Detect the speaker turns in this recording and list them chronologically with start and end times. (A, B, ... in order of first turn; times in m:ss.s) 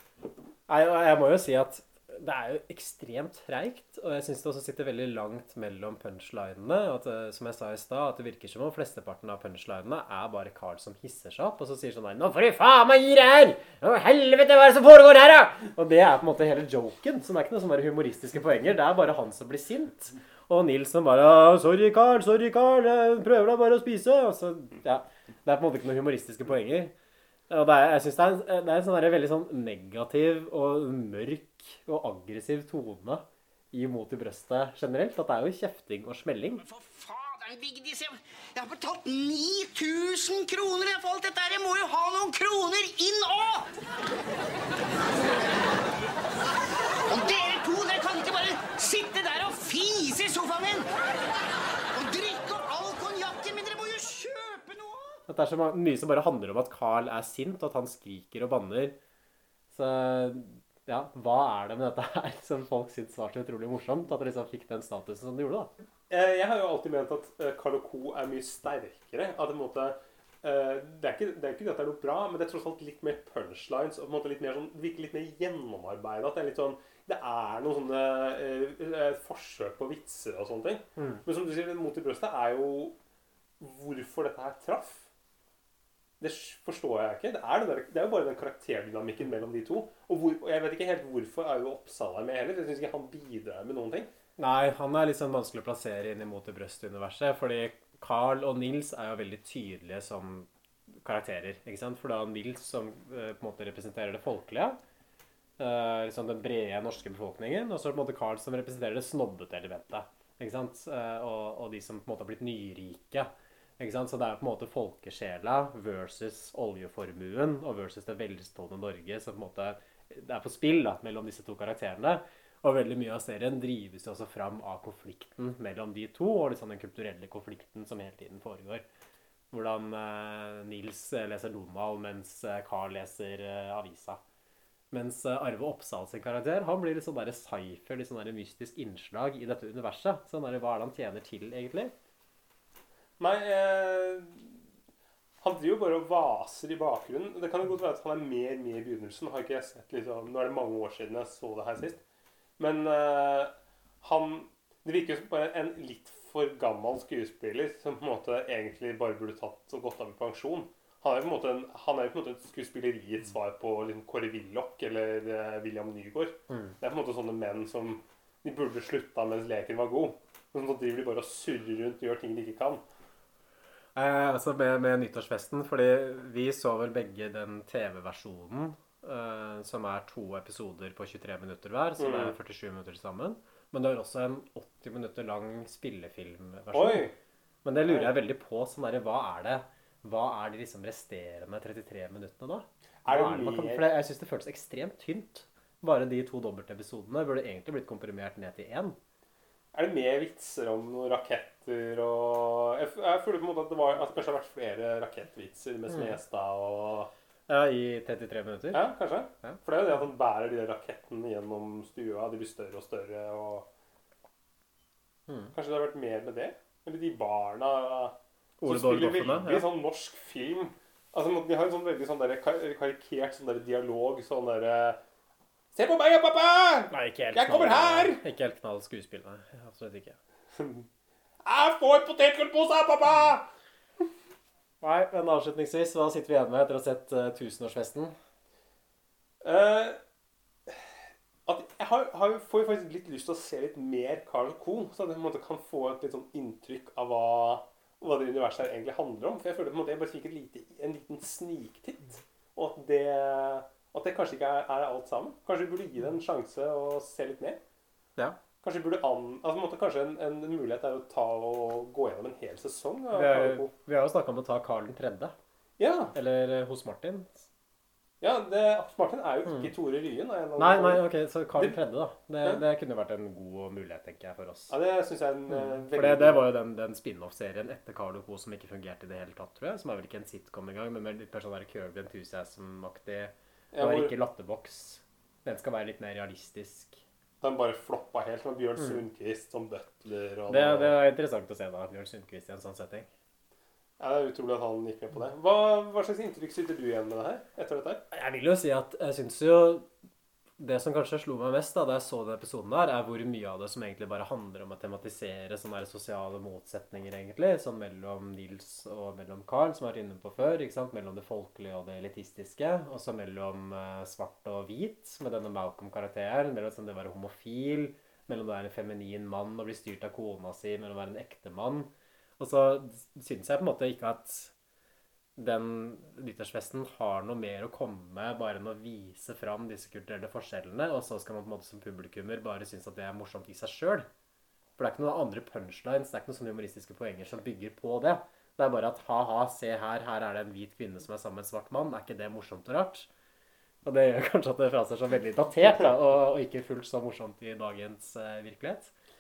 0:00.7-0:26.9 A
0:27.5-0:36.6 A
0:36.6-0:43.7 B
0:47.1-0:50.9 B
0:51.9-0:55.2 B
0:55.3-0:59.0 A
0:59.7-1:05.7 A
1:06.1-1:22.9 C
1:21.0-1:21.2 A
1:23.6-1:25.1 C
1:26.2-1:34.1 C
1:34.4-1:40.5 A
1:41.0-1:44.8 A
1:45.6-2:08.8 A
2:09.5-2:14.2 A
2:14.9-2:21.9 A
2:23.2-2:24.6 C
2:25.4-2:32.0 C
2:32.6-2:52.8 C
2:46.5-2:46.7 A
2:53.9-3:07.1 A
3:02.0-3:02.3 C
3:06.7-3:07.1 C
3:07.6-3:19.0 A
3:07.9-3:08.1 C
3:13.0-3:13.9 C
3:19.7-3:27.1 C
3:25.9-3:26.2 A
3:27.5-3:28.9 A
3:28.7-3:33.6 C
3:35.3-3:35.5 A
3:35.5-3:45.0 C
3:38.6-3:39.7 A
3:45.7-3:48.2 C
3:46.9-3:50.2 A
3:50.6-3:50.8 C
3:51.4-3:53.4 C
3:54.8-3:58.1 A
3:59.4-4:00.0 C
4:01.4-4:17.6 C
4:18.6-4:23.7 C
4:23.1-4:25.3 A
4:25.8-4:26.1 C
4:26.1-4:27.5 A
4:28.2-4:31.8 C
4:30.6-4:34.7 A
4:34.7-4:36.5 C
4:35.5-4:47.0 A
4:43.7-4:44.1 C
4:47.4-4:51.0 C
4:50.5-4:53.1 A
4:54.0-4:58.0 C
4:58.1-4:59.9 A
5:00.6-5:24.5 A
5:25.4-5:34.1 A
5:34.8-5:43.1 A
5:43.8-5:48.9 A